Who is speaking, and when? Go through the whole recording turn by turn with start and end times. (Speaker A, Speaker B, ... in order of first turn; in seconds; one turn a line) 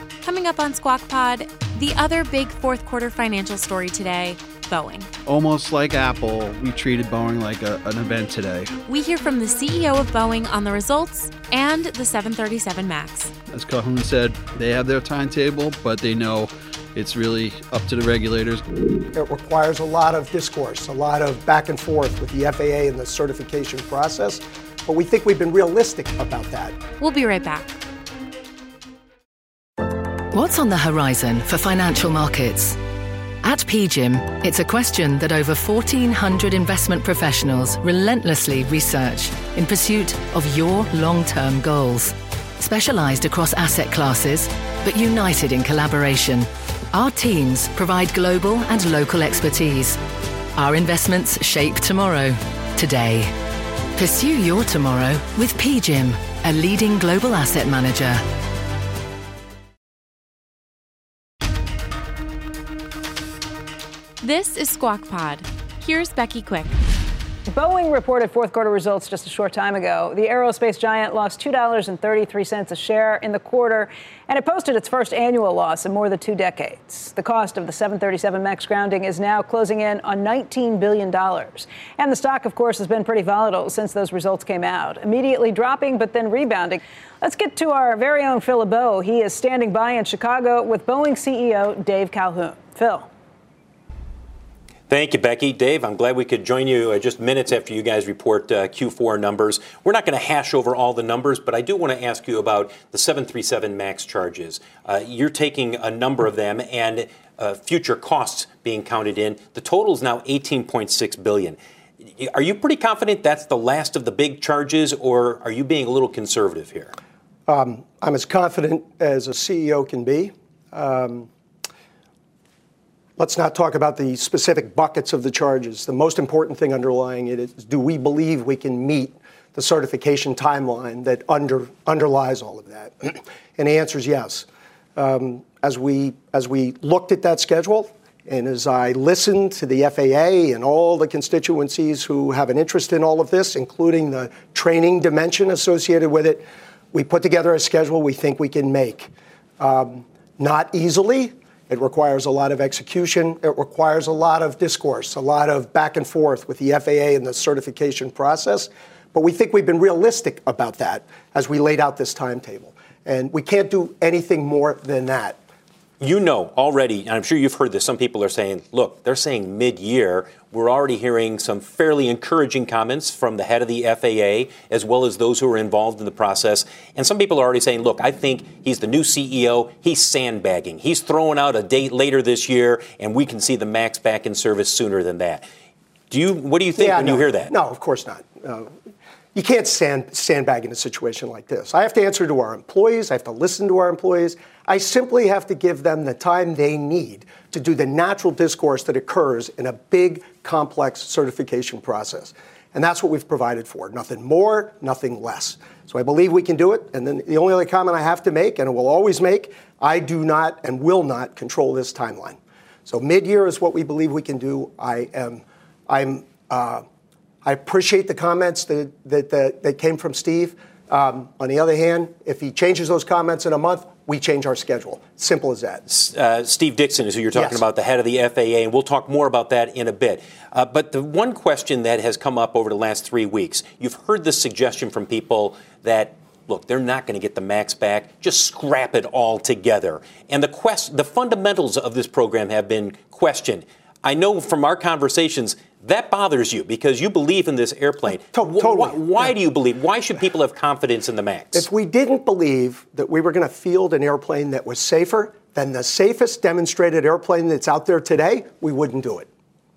Speaker A: 0.2-5.1
Speaker B: 5.2-8.8
Speaker A: 8.9-13.3
Speaker B: 13.5-18.6
Speaker C: 19.1-26.8
Speaker A: 27.0-27.8
Speaker D: 30.3-32.8
Speaker D: 33.4-50.0
Speaker D: 50.5-53.4
Speaker D: 53.9-58.2
Speaker A: 64.2-66.8
Speaker E: 67.5-93.1
Speaker F: 94.9-111.6
Speaker F: 112.2-117.0
Speaker C: 117.5-121.3
Speaker C: 123.2-134.4
Speaker C: 134.9-165.4
Speaker F: 166.0-185.4
Speaker F: 186.1-187.5
Speaker C: 186.8-188.7
Speaker C: 189.3-216.8
Speaker C: 217.4-225.8
Speaker F: 225.9-251.7
Speaker C: 227.3-227.6
Speaker C: 248.3-249.3
Speaker C: 251.5-259.3